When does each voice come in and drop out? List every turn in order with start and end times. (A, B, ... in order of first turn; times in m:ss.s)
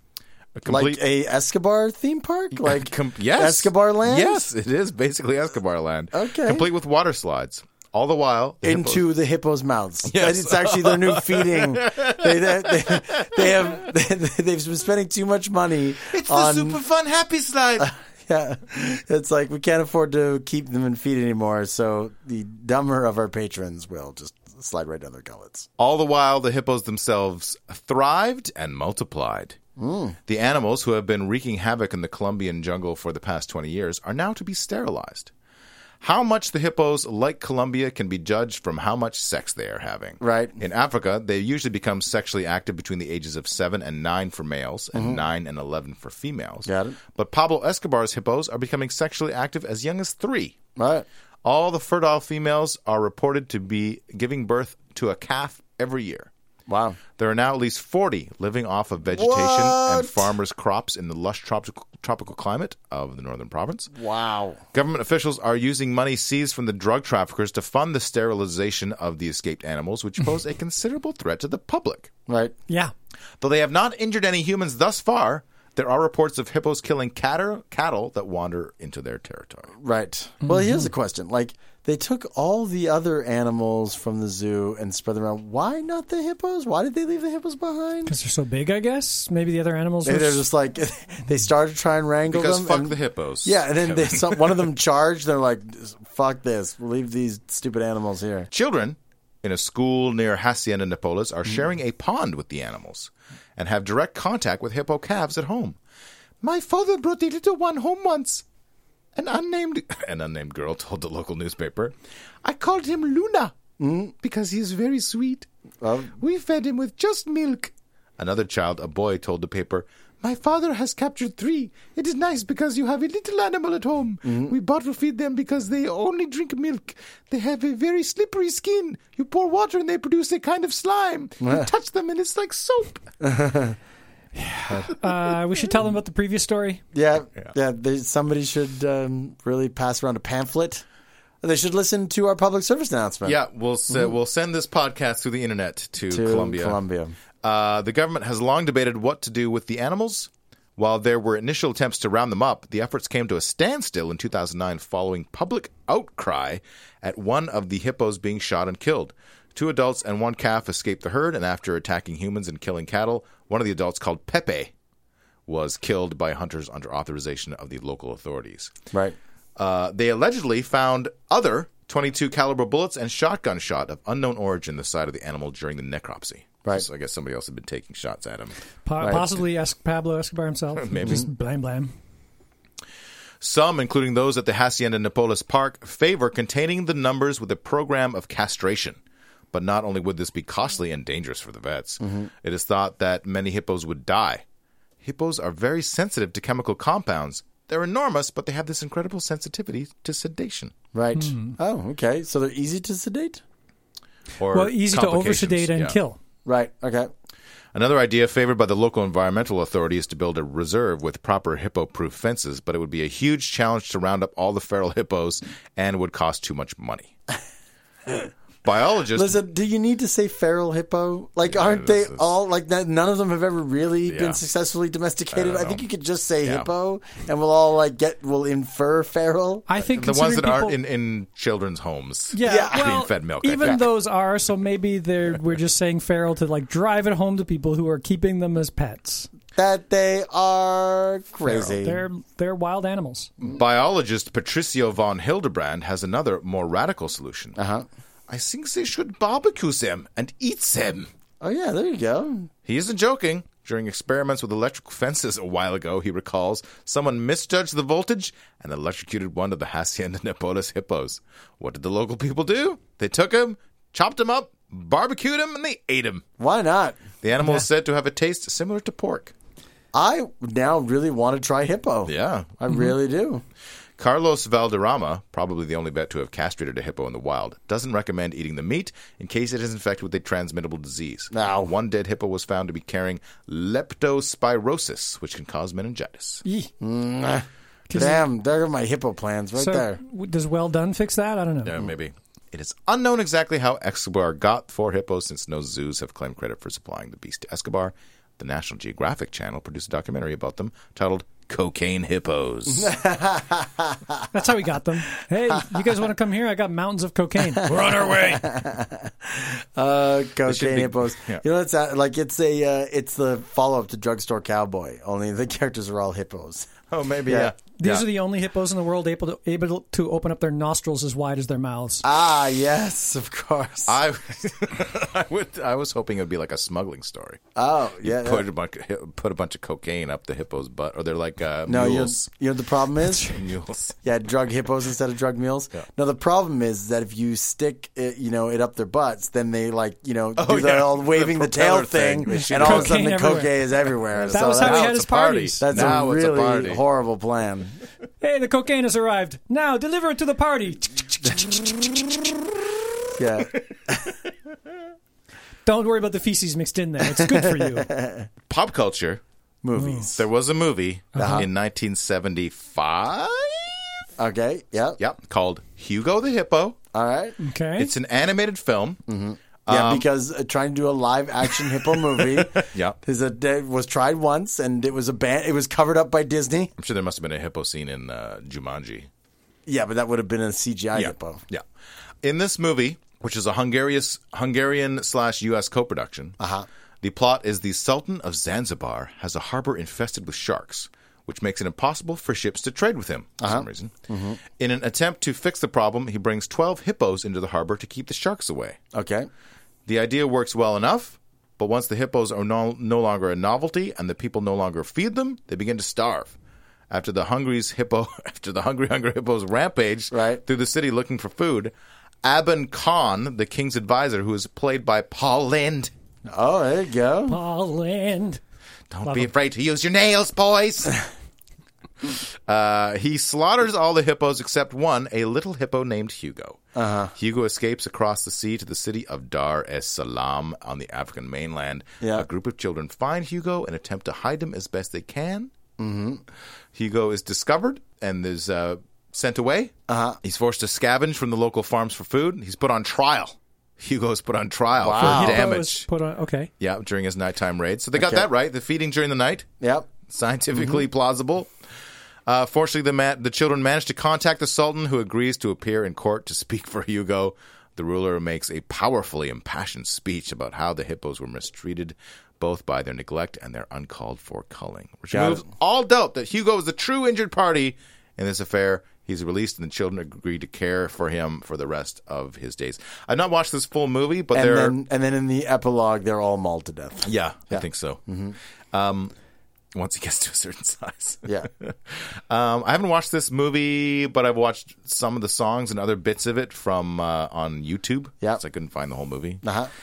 0:00.6-0:01.0 A
0:00.7-0:04.5 B
0:02.6-0:09.0 A
0:06.1-0:06.7 B
0:08.6-0:16.8 B
0:10.0-0:13.8 A
0:16.1-0:17.9 A
0:17.9-0:25.7 B
0:25.8-0:29.6 A
0:29.8-0:30.2 B
0:30.3-0:35.3 A
0:36.0-0:50.6 A
0:40.2-0:40.6 B
0:44.9-0:45.2 B
0:46.6-0:47.0 B
0:50.8-0:51.1 B
0:51.4-0:56.3 A
0:56.7-0:57.0 B
0:57.2-1:03.9 A
0:59.1-1:00.3 B
1:03.9-1:04.6 B
1:04.7-1:12.1 A
1:12.3-1:12.5 B
1:13.4-1:19.7 A
1:19.8-1:28.1 B
1:20.4-1:20.9 C
1:28.1-1:30.4 C
1:30.0-1:38.5 B
1:32.3-1:34.7 A
1:38.5-1:45.8 A
1:46.4-1:48.4 A
1:49.2-1:53.6 A
1:53.8-1:54.1 B
1:54.2-1:55.5 A
1:55.8-1:56.1 B
1:56.2-2:13.1 A
2:04.2-2:04.5 B
2:11.4-2:11.7 B
2:13.2-2:13.8 B
2:14.4-2:15.7 A
2:14.8-2:16.8 C
2:16.9-2:20.9 B
2:21.4-2:23.4 B
2:23.2-2:26.8 A
2:26.1-2:27.2 B
2:27.4-2:44.7 A
2:45.5-2:48.7 A
2:49.6-2:58.6 A
2:58.9-3:01.9 C
2:59.0-2:59.3 B
3:03.4-3:09.0 A
3:09.5-3:14.4 A
3:12.0-3:12.3 B
3:15.0-3:20.8 A
3:20.9-3:23.4 B
3:21.2-3:21.6 C
3:24.4-3:26.0 A
3:24.5-3:26.2 C
3:26.5-3:27.1 B
3:27.7-3:37.2 A
3:38.6-3:39.4 A
3:39.1-3:49.7 B
3:41.4-3:42.2 A
3:44.1-3:44.4 A
3:45.3-3:45.8 A
3:46.4-3:46.7 A
3:49.7-3:50.8 C
3:49.9-3:53.9 A
3:52.3-3:59.3 C
3:52.4-3:52.9 B
3:59.6-4:02.0 B
4:01.5-4:03.3 C
4:03.4-4:07.6 A
4:07.6-4:07.9 B
4:08.3-4:11.1 A
4:11.4-4:12.5 B
4:12.6-4:26.2 A
4:26.4-4:27.0 B
4:27.2-4:29.3 A
4:29.9-4:33.4 B
4:32.1-4:32.6 A
4:34.0-4:46.4 A
4:41.3-4:41.7 B
4:46.5-4:46.7 C
4:46.8-4:50.0 B
4:47.9-4:48.2 C
4:49.6-4:51.9 C
4:51.6-5:02.9 A
5:02.7-5:04.3 B
5:04.3-5:08.4 C
5:07.6-5:17.5 B
5:07.7-5:08.1 A
5:10.4-5:11.4 A
5:16.9-5:18.1 A
5:17.7-5:22.0 C
5:22.0-5:24.0 B
5:23.9-5:27.4 A
5:27.6-5:28.4 B
5:28.0-5:32.3 A
5:31.7-5:33.3 B
5:33.2-5:34.0 A
5:34.0-5:44.9 B
5:40.4-5:43.1 A
5:42.3-5:43.6 C
5:44.1-5:46.8 A
5:44.3-5:46.0 C
5:45.6-5:47.8 B
5:48.2-5:52.0 C
5:53.1-5:54.2 B
5:55.7-5:57.9 C
5:57.1-5:58.3 B
5:58.5-5:59.2 A
5:59.6-6:00.2 B
5:59.8-6:00.1 C
6:00.2-6:03.9 A
6:01.1-6:01.5 C
6:01.2-6:01.5 B
6:04.2-6:05.0 B
6:05.0-6:06.8 A
6:06.9-6:07.4 B
6:07.4-6:07.9 C
6:07.8-6:09.0 A
6:09.1-6:16.7 B
6:09.7-6:10.1 A
6:11.7-6:13.0 A
6:16.8-6:19.1 A
6:19.7-6:21.4 B
6:21.0-6:21.6 A
6:22.2-6:26.4 A
6:26.4-6:26.7 B
6:27.0-6:33.9 A
6:33.4-6:34.4 B
6:34.5-6:38.8 A
6:38.9-6:39.3 B
6:39.9-6:46.4 A
6:46.9-6:55.9 A
6:50.1-6:50.4 B
6:56.3-6:57.4 B
6:57.3-6:58.4 C
6:58.9-7:01.0 A
6:59.0-6:59.3 C
7:02.1-7:06.6 A
7:06.8-7:07.1 B
7:07.1-7:15.5 A
7:12.0-7:12.3 B
7:15.8-7:16.2 B
7:16.7-7:25.9 A
7:19.9-7:20.2 B
7:24.8-7:25.5 B
7:25.0-7:26.5 C
7:26.6-7:29.5 A
7:28.0-7:28.3 B
7:29.6-7:29.9 B
7:30.1-7:31.5 A
7:32.3-7:54.8 A
7:45.1-7:45.5 B
7:54.3-7:58.4 B
7:57.0-7:58.0 A
7:58.7-7:59.1 A
7:59.7-8:09.4 A
8:09.4-8:09.7 B